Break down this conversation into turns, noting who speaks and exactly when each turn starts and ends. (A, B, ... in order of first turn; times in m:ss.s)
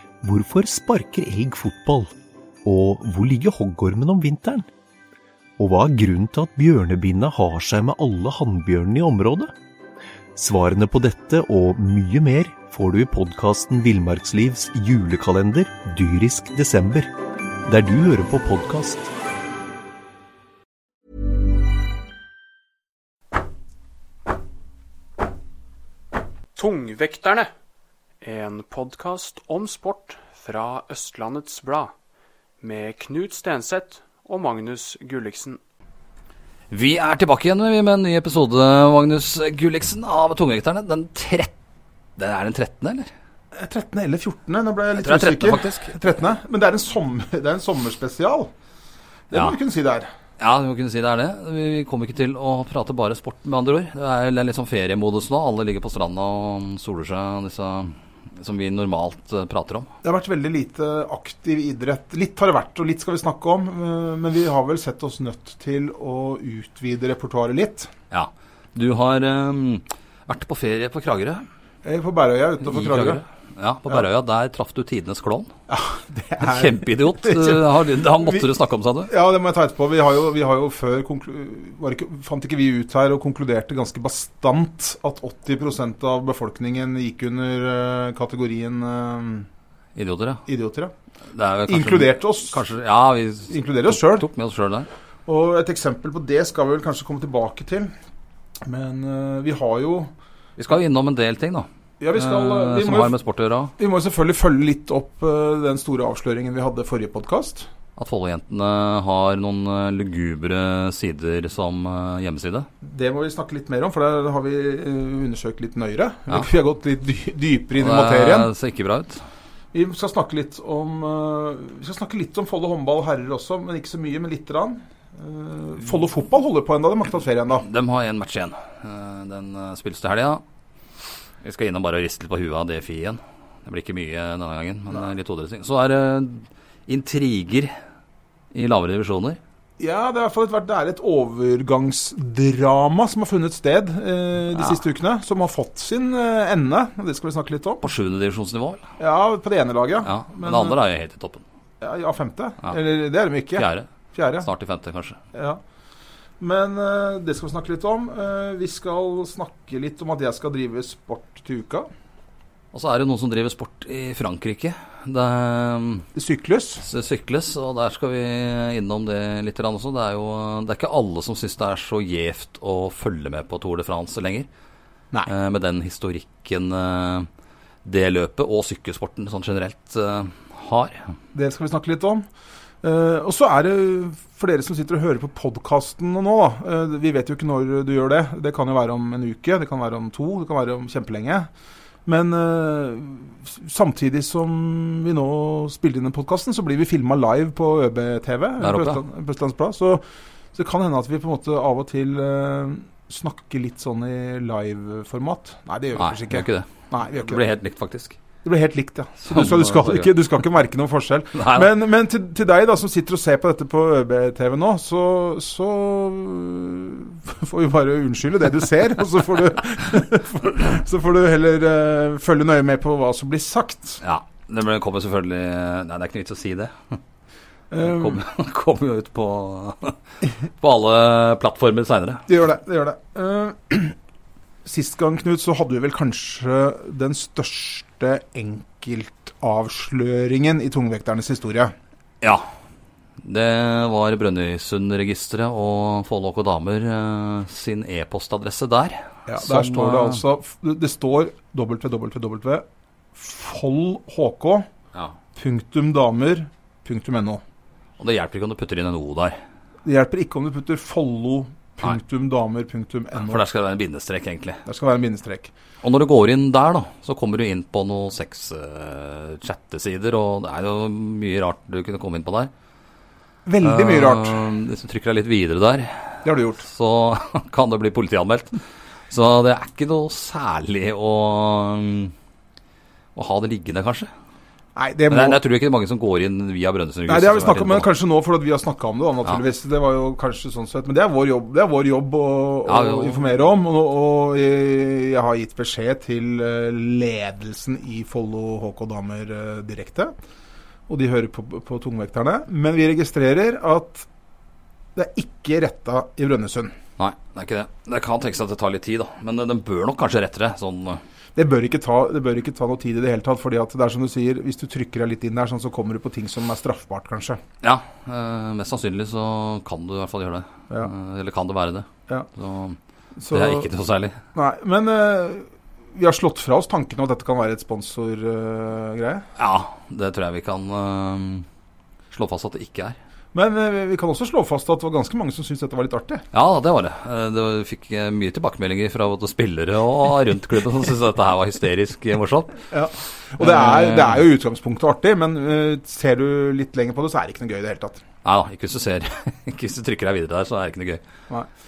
0:00.2-0:02.1 A
0:02.6-0:04.7 A
0:05.6-0:09.5 A
0:10.3-0:17.1 A
0:17.6-0:19.1 A
0:26.5-0:27.5 B
0:28.2-0:31.9 B
0:32.6-0:35.6 B
0:36.7-0:41.5 C
0:42.2-0:43.1 C
0:43.5-0:48.5 D
0:45.0-0:45.9 C
0:49.3-0:50.1 D
0:50.4-0:59.9 C
1:00.0-1:07.9 D
1:08.1-1:11.4 C
1:11.8-1:13.2 D
1:12.6-1:15.5 C
1:15.7-1:18.4 D
1:16.4-1:19.1 C
1:19.1-1:29.5 D
1:30.0-1:30.4 C
1:30.5-1:30.9 D
1:31.3-1:34.9 C
1:31.7-1:32.6 D
1:33.5-1:34.3 D
1:35.2-1:37.9 D
1:38.6-1:40.1 D
1:40.6-1:43.7 C
1:42.0-1:43.1 D
1:43.8-1:47.7 D
1:48.0-1:52.7 C
1:52.8-1:58.5 D
1:57.8-1:59.2 C
1:59.7-2:07.6 D
2:07.6-2:10.4 C
2:11.4-2:17.7 C
2:18.5-2:19.4 C
2:19.8-2:27.8 D
2:27.8-2:28.8 C
2:29.0-2:30.8 D
2:30.0-2:31.4 C
2:31.8-2:34.5 D
2:33.6-2:33.9 C
2:34.4-2:35.2 C
2:35.3-2:35.6 D
2:36.4-2:41.9 D
2:42.7-2:46.1 C
2:46.1-2:46.8 D
2:46.8-2:54.5 C
2:55.2-2:57.3 C
2:57.8-3:01.1 C
3:01.3-3:02.2 D
3:02.8-3:11.5 D
3:12.0-3:20.0 D
3:18.6-3:19.0 C
3:20.5-3:27.4 D
3:26.0-3:28.2 C
3:28.4-3:44.0 D
3:29.2-3:30.1 C
3:31.3-3:31.7 C
3:44.0-3:47.0 C
3:47.7-3:48.2 D
3:47.8-3:50.0 C
3:50.6-3:52.2 C
3:52.3-3:53.9 D
3:54.6-4:01.7 D
4:02.2-4:02.5 C
4:03.2-4:10.2 C
4:09.3-4:14.6 D
4:15.4-4:17.4 D
4:18.0-4:19.4 C
4:19.8-4:23.4 D
4:23.1-4:24.6 C
4:24.6-4:25.5 D
4:25.8-4:32.5 C
4:33.4-4:34.4 D
4:33.6-4:42.1 C
4:36.2-4:36.6 D
4:43.1-4:44.1 C
4:44.8-4:45.4 D
4:45.1-4:47.9 C
4:47.1-5:00.1 D
4:52.7-4:53.2 C
5:00.9-5:04.0 D
5:04.9-5:06.7 D
5:07.0-5:11.0 C
5:11.3-5:17.4 D
5:17.6-5:22.8 C
5:23.2-5:23.7 D
5:23.3-5:24.2 C
5:24.3-5:29.3 D
5:29.4-5:31.4 C
5:32.1-5:33.0 C
5:33.3-5:36.2 D
5:36.3-5:42.6 C
5:42.7-5:48.0 D
5:43.4-5:44.2 C
5:48.2-5:51.0 C